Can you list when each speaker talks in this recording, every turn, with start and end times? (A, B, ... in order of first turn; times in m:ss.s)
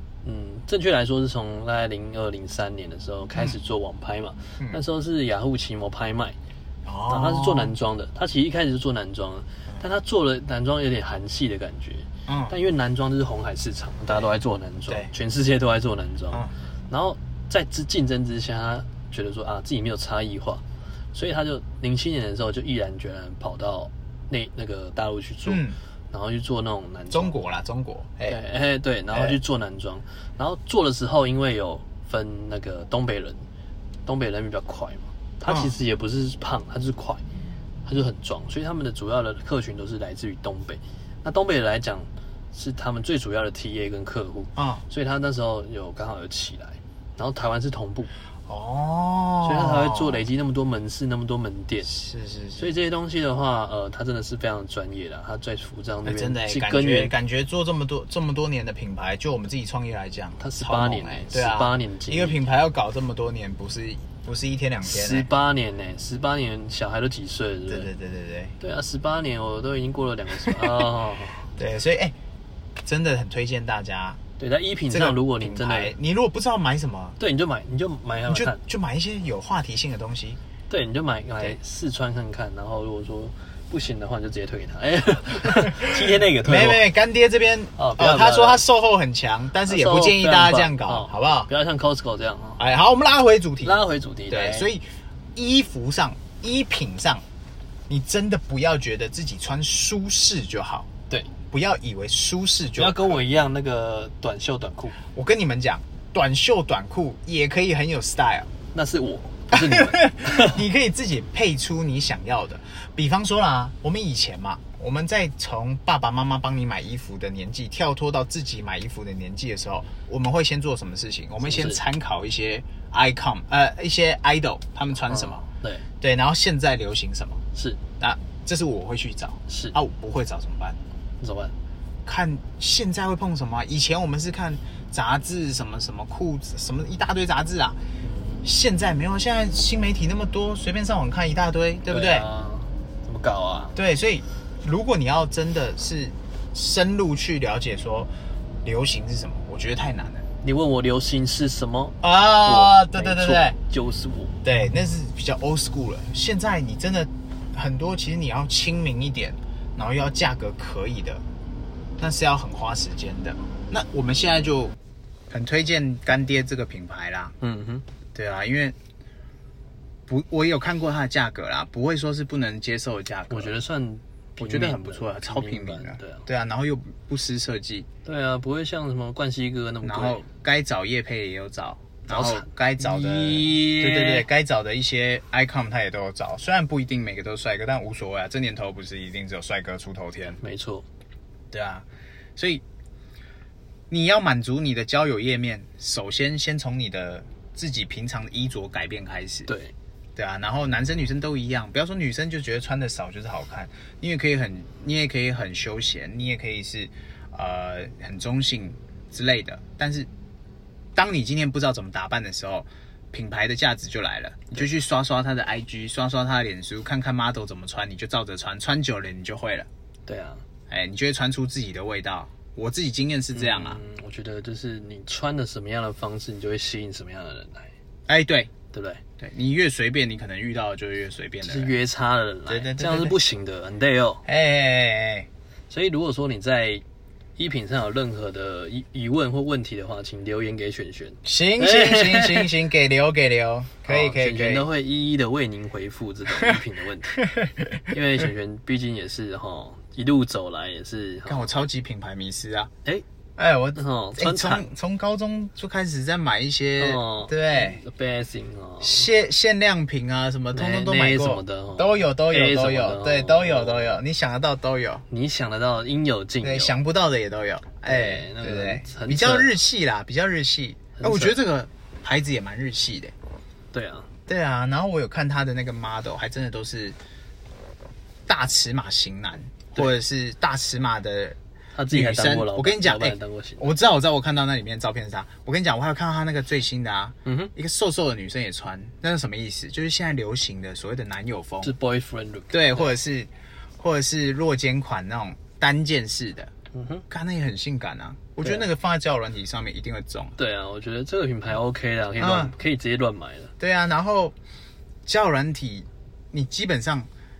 0:00.2-0:06.4 A
0:06.8-0:07.7 B
0:07.1-0:20.6 A
0:12.3-0:12.5 B
0:21.1-0:27.4 A
0:25.4-0:25.8 B
0:27.1-0:28.4 B
0:28.3-0:33.4 A
0:29.1-0:29.4 B
0:34.0-0:37.2 A
0:35.4-0:35.8 B
0:37.8-0:48.1 A
0:44.6-0:44.8 B
0:48.4-0:50.2 B
0:49.4-0:51.9 A
0:51.9-0:52.7 B
0:52.6-0:57.1 A
0:56.0-1:05.3 B
1:00.4-1:02.4 A
1:04.8-1:07.9 A
1:07.7-1:08.5 B
1:08.6-1:11.5 A
1:10.4-1:10.7 B
1:11.5-1:12.1 B
1:12.8-1:14.2 B
1:14.4-1:15.9 A
1:14.9-1:17.2 B
1:17.2-1:18.6 A
1:18.3-1:20.4 B
1:20.7-1:26.8 A
1:26.4-1:31.5 B
1:27.8-1:28.6 A
1:29.7-1:32.6 A
1:32.6-1:37.2 B
1:33.6-1:34.7 A
1:37.9-1:40.9 B
1:41.5-1:43.2 B
1:42.8-1:45.0 A
1:45.1-1:48.5 B
1:48.7-1:50.6 A
1:49.5-2:05.4 B
2:01.4-2:01.8 A
2:05.1-2:05.8 A
2:06.0-2:07.4 B
2:07.5-2:07.8 A
2:08.0-2:10.8 B
2:09.5-2:09.7 A
2:11.2-2:11.5 A
2:12.0-2:17.8 B
2:18.0-2:18.5 A
2:18.4-2:22.2 B
2:21.9-2:23.8 A
2:23.7-2:28.1 B
2:28.6-2:30.2 B
2:30.4-2:34.3 A
2:32.0-2:33.6 B
2:34.4-2:41.2 B
2:42.0-2:44.7 B
2:45.3-2:47.3 B
2:47.4-2:47.8 A
2:48.1-2:48.8 B
2:50.1-2:53.5 B
2:53.3-2:56.2 A
2:54.4-2:57.9 B
2:58.0-3:00.2 A
2:59.8-3:10.4 B
3:02.1-3:04.2 A
3:10.4-3:10.8 A
3:11.5-3:12.6 B
3:13.9-3:19.5 B
3:19.5-3:19.7 A
3:20.2-3:30.1 B
3:30.9-3:39.7 B
3:40.0-3:40.4 A
3:40.7-3:43.8 B
3:43.3-3:47.7 A
3:48.1-3:48.5 B
3:48.7-3:49.0 A
3:49.2-3:51.7 B
3:51.4-3:54.2 A
3:52.5-3:53.1 B
3:54.2-3:55.3 B
3:55.7-3:56.8 A
3:57.4-4:02.5 A
4:01.2-4:04.6 B
4:03.9-4:07.2 A
4:06.3-4:06.6 B
4:07.2-4:07.9 B
4:07.9-4:11.5 A
4:11.2-4:12.7 B
4:13.4-4:17.8 B
4:13.7-4:14.7 A
4:16.8-4:19.1 A
4:18.8-4:25.0 B
4:20.5-4:24.0 A
4:25.1-4:26.7 A
4:26.4-4:33.1 B
4:27.8-4:29.5 A
4:31.0-4:31.4 A
4:33.7-4:34.1 A
4:34.3-4:37.0 B
4:38.3-4:41.4 B
4:41.7-4:43.7 A
4:41.9-4:51.7 B
4:47.2-4:47.5 A
4:51.6-4:52.9 A
4:52.5-4:56.5 B
4:56.7-4:57.0 A
4:57.1-5:00.4 B
4:58.4-4:58.7 A
5:00.4-5:03.5 A
5:02.2-5:02.5 B
5:03.6-5:04.3 B
5:05.0-5:07.1 B